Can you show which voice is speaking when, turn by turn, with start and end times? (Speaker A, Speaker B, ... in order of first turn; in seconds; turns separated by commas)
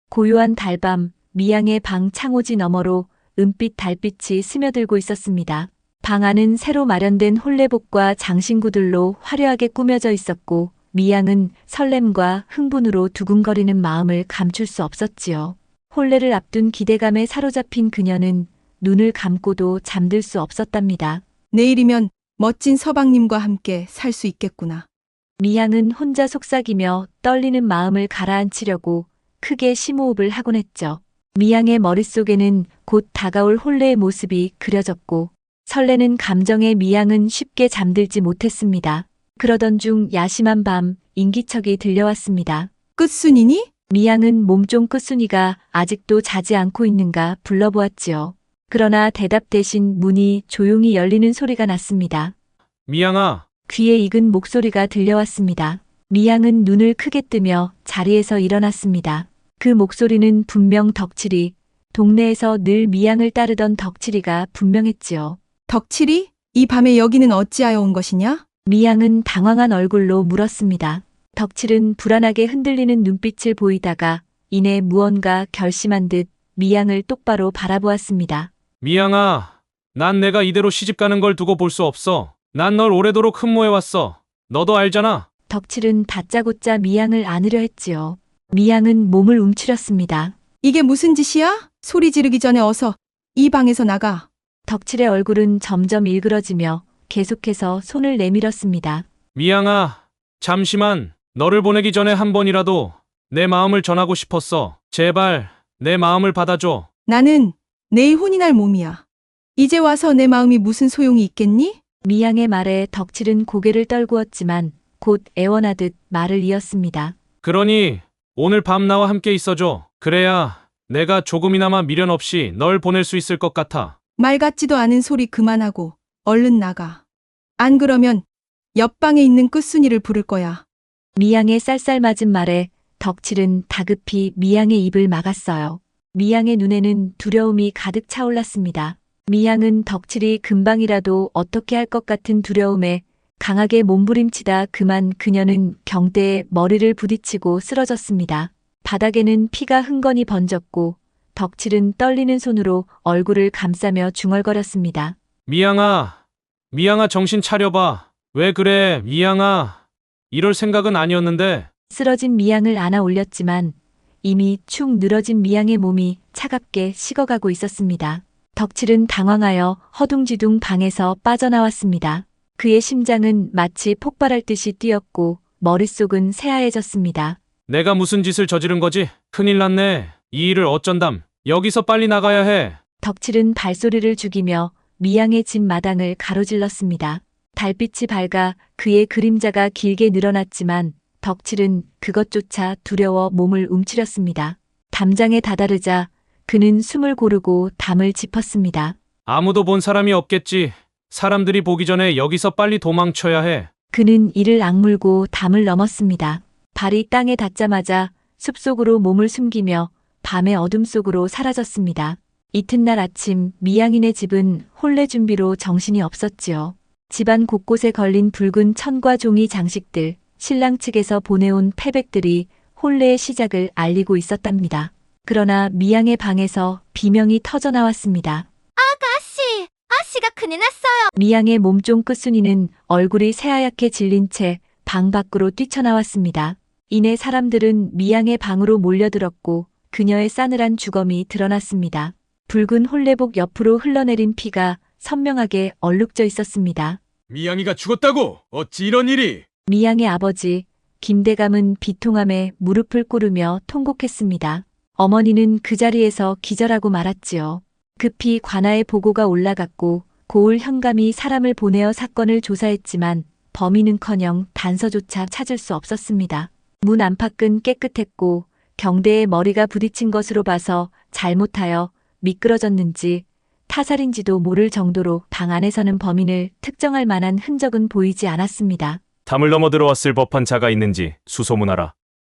Speaker A: 0.1-21.2, Speaker B: 21.5-24.9, Speaker A: 25.4-42.7, Speaker B: 43.0-43.7, Speaker A: 43.9-52.3, Speaker C: 52.9-53.4, Speaker A: 53.7-65.4, Speaker B: 65.7-68.4, Speaker A: 68.7-78.5, Speaker C: 78.8-85.3, Speaker A: 85.5-90.3, Speaker B: 90.6-94.3, Speaker A: 94.7-99.1, Speaker C: 99.3-106.9, Speaker B: 107.1-109.0, Speaker B: 109.6-111.8, Speaker A: 112.0-117.2, Speaker C: 117.4-123.9, Speaker B: 124.2-127.0, Speaker B: 127.6-128.2, Speaker B: 128.8-130.6, Speaker A: 131.2-155.2, Speaker C: 155.5-156.2, Speaker C: 156.7-159.8, Speaker C: 160.3-161.7, Speaker A: 161.9-177.4, Speaker C: 177.7-182.8, Speaker A: 183.0-199.0, Speaker C: 199.3-203.7, Speaker A: 203.9-228.5, Speaker D: 228.8-231.1, Speaker A: 231.1-247.0, Speaker E: 247.3-249.4, Speaker A: 249.7-279.0, Speaker F: 279.3-281.9